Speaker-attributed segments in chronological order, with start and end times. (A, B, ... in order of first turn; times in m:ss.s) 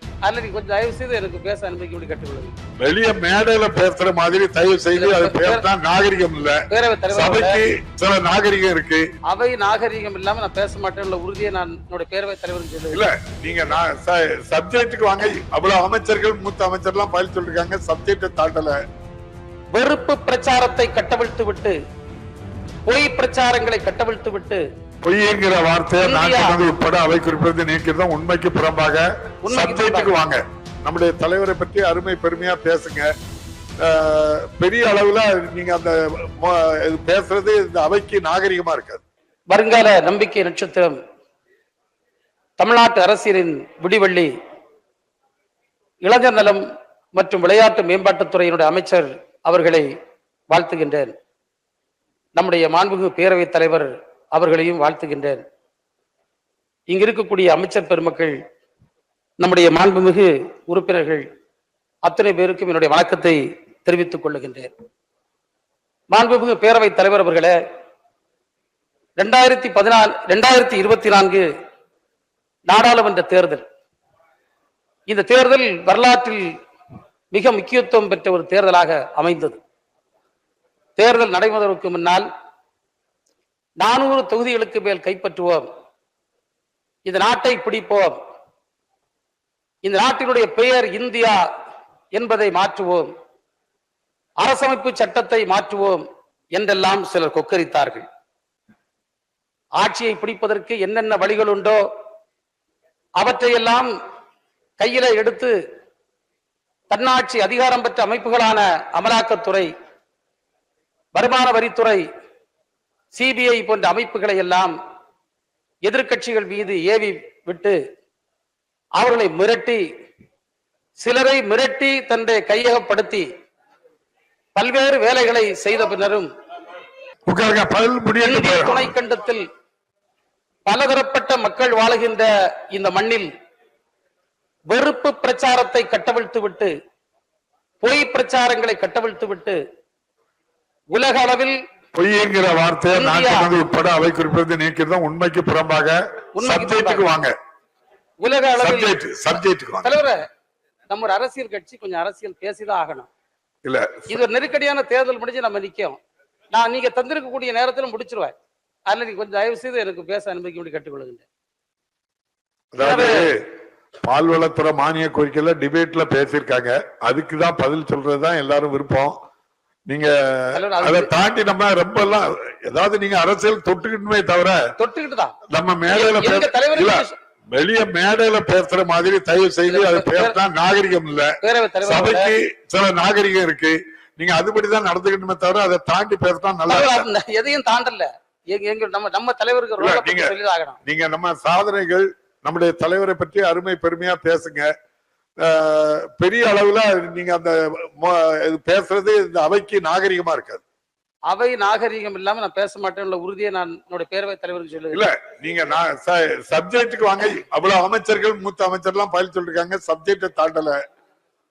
0:00.2-0:02.5 A
0:02.8-0:06.6 B
0:05.0-0:05.6 A
0:06.7-0:07.6 A
0:07.1-0:09.1 B
0:09.3-0:13.0 A
0:12.9-0:18.8 B
0:19.7-0:21.8 A
0:22.8-0:24.6 A
0:25.0-0:33.1 B
0:26.0-0:26.6 A
0:29.4-0:30.1 A
0:33.8-0:39.0 B
0:39.5-0:41.0 A
0:42.6-0:44.3 A
0:46.0-0:46.6 A
0:47.1-0:49.9 A
0:50.5-0:51.1 A
0:52.4-0:55.4 A
0:56.9-0:58.4 A
0:59.4-1:01.2 A
1:02.0-1:04.7 A
1:06.1-1:07.5 A
1:09.2-1:11.4 A
1:12.7-1:13.6 A
1:15.1-1:16.5 A
1:17.3-1:19.6 A
1:21.0-1:22.2 A
1:23.8-1:25.6 A
1:27.0-1:28.2 A
1:29.8-1:31.4 A
1:32.1-1:33.1 A
1:34.4-1:36.0 A
1:36.6-1:38.0 A
1:39.8-1:41.8 A
1:43.2-1:43.9 A
1:44.8-1:45.5 A
1:46.9-1:49.7 A
1:51.1-1:52.0 A
1:53.1-1:54.7 A
1:55.8-1:57.8 A
1:59.0-1:59.8 A
2:01.0-2:03.3 A
2:04.5-2:06.3 A
2:07.3-2:08.9 B
2:08.2-2:09.4 A
2:10.6-2:13.3 A
2:14.7-2:16.7 A
2:17.8-2:19.6 A
2:20.9-2:21.6 A
2:21.9-2:27.3 B
2:22.9-2:23.5 A
2:26.3-2:27.0 A
2:28.2-2:29.0 A
2:28.6-2:29.9 B
2:29.8-2:30.2 A
2:30.9-2:33.1 A
2:33.6-2:34.2 B
2:34.1-2:36.0 A
2:36.5-2:38.3 A
2:38.9-2:41.2 A
2:42.7-2:43.4 B
2:42.8-2:43.3 A
2:44.0-2:49.1 B
2:49.9-2:54.6 B
2:50.5-2:51.1 A
2:54.8-2:55.4 A
2:55.5-3:07.0 B
2:55.9-2:57.1 A
2:59.7-3:00.4 A
3:01.4-3:02.3 A
3:06.7-3:10.8 A
3:09.8-3:10.3 B
3:10.8-3:14.7 B
3:15.4-3:20.6 B
3:21.3-3:25.0 A
3:24.9-3:30.8 B